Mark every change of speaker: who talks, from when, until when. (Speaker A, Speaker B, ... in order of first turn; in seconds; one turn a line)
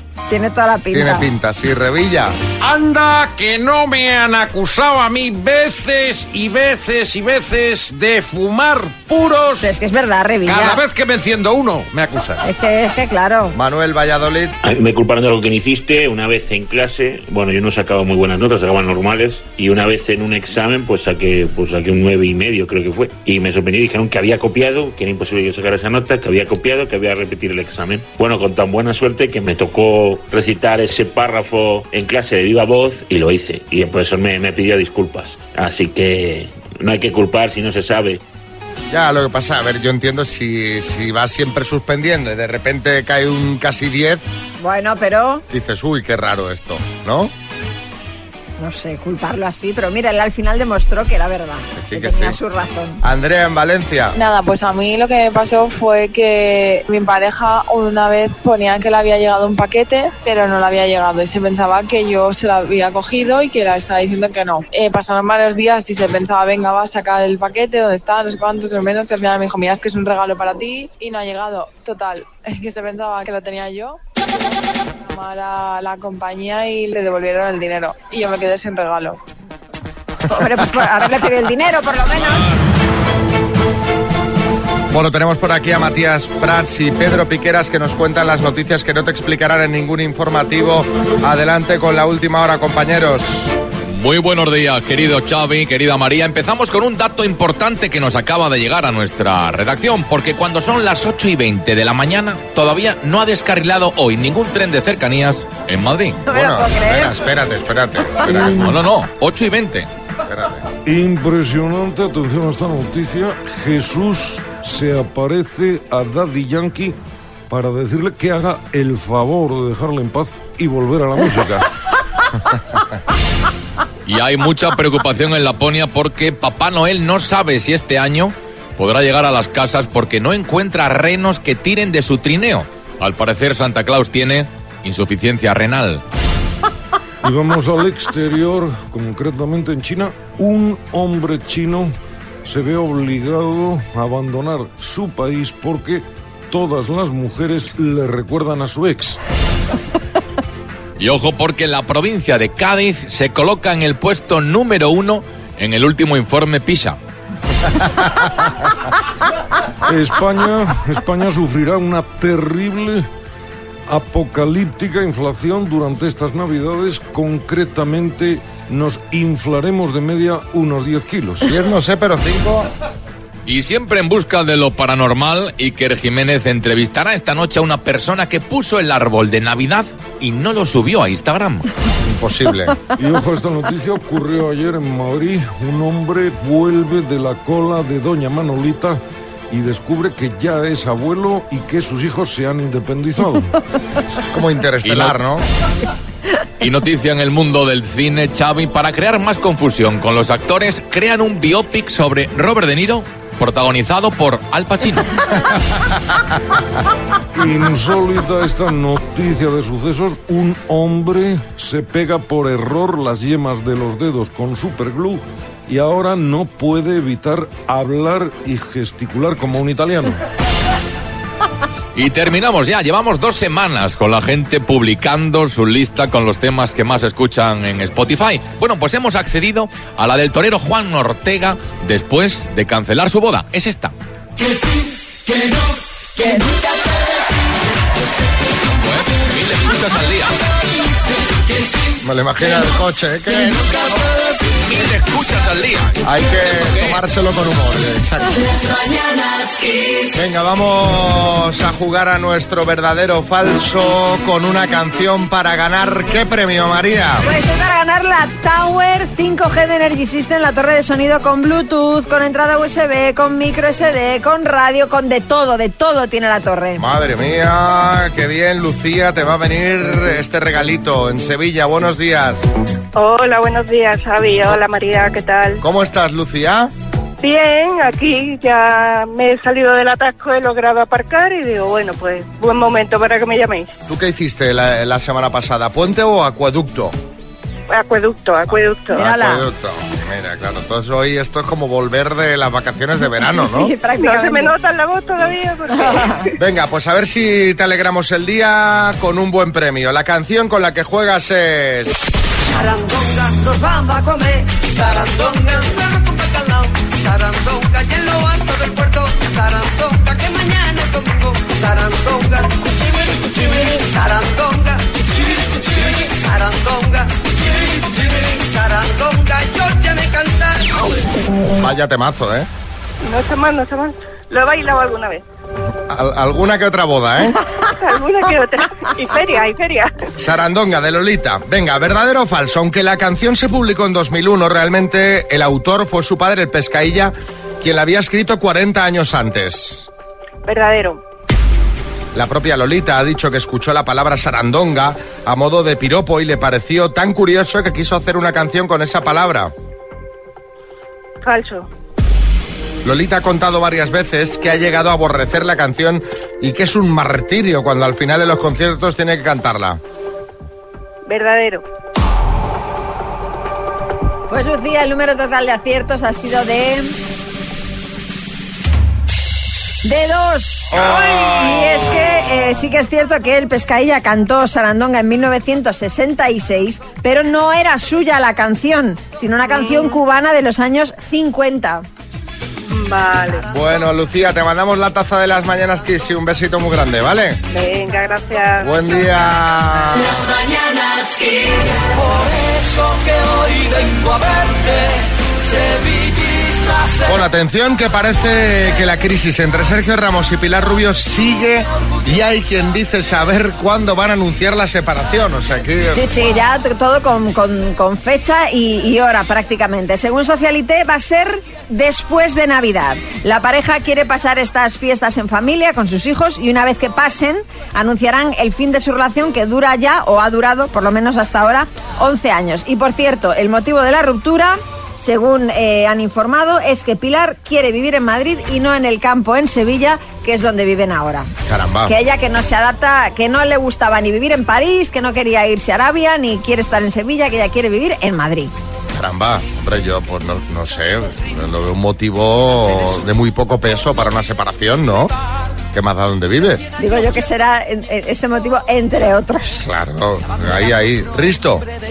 Speaker A: 0.3-1.3
Speaker B: 0.9-2.3
Speaker C: 2.6-9.7
Speaker A: 9.6-10.8
Speaker C: 10.4-12.4
Speaker A: 12.4-13.5
Speaker B: 13.5-14.5
Speaker D: 14.6-38.2
Speaker B: 38.9-44.2
Speaker A: 44.6-45.4
Speaker B: 45.5-47.3
Speaker A: 48.6-53.0
Speaker B: 51.8-52.4
Speaker B: 53.0-54.2
Speaker E: 54.1-74.5
Speaker E: 75.0-79.2
Speaker A: 80.3-82.5
Speaker B: 84.9-93.5
Speaker F: 93.9-106.2
Speaker A: 106.2-107.2
Speaker B: 106.3-108.8
Speaker A: 108.2-108.5
Speaker F: 108.3-109.9
Speaker B: 110.2-110.6
Speaker G: 110.8-117.0
Speaker G: 117.5-121.7
Speaker F: 124.0-136.0
Speaker G: 137.2-141.9
Speaker G: 142.4-149.2
Speaker F: 151.0-157.0
Speaker G: 159.8-163.1
Speaker G: 163.9-171.5
Speaker B: 171.4-172.7
Speaker F: 173.4-181.6
Speaker B: 182.0-182.8
Speaker G: 182.9-193.5
Speaker B: 194.2-195.4
Speaker F: 194.8-195.1
Speaker F: 196.6-205.1
Speaker G: 207.3-220.2
Speaker F: 221.9-233.9
Speaker F: 238.8-240.3
Speaker B: 242.0-243.8
Speaker F: 244.7-247.0
Speaker B: 246.0-248.4
Speaker B: 250.1-257.3
Speaker A: 257.2-266.8
Speaker B: 266.8-272.5
Speaker H: 272.9-275.6
Speaker B: 275.6-276.7
Speaker H: 277.2-283.7
Speaker B: 283.9-286.9
Speaker H: 287.7-289.0
Speaker B: 288.5-293.7
Speaker A: 288.9-289.5
Speaker A: 293.2-294.5
Speaker H: 294.0-296.3
Speaker A: 295.9-296.2
Speaker B: 296.4-302.0
Speaker I: 302.5-320.9
Speaker B: 321.6-322.5
Speaker H: 323.0-325.2
Speaker B: 325.9-327.4
Speaker H: 327.3-330.0
Speaker B: 330.2-339.9
Speaker H: 340.4-341.0
Speaker B: 342.1-349.5
Speaker H: 351.2-351.7
Speaker B: 352.8-359.8
Speaker H: 361.1-361.6
Speaker A: 364.3-366.9
Speaker A: 369.8-381.8
Speaker B: 370.7-371.7
Speaker H: 379.5-380.0
Speaker H: 382.7-383.5
Speaker B: 383.5-387.4
Speaker H: 387.5-388.7
Speaker B: 388.6-390.3
Speaker I: 393.8-394.1
Speaker B: 397.0-406.0
Speaker A: 405.9-431.3
Speaker B: 431.4-431.9
Speaker A: 431.9-438.5
Speaker B: 438.9-445.1
Speaker B: 445.7-446.6
Speaker A: 446.8-449.6
Speaker B: 449.6-451.6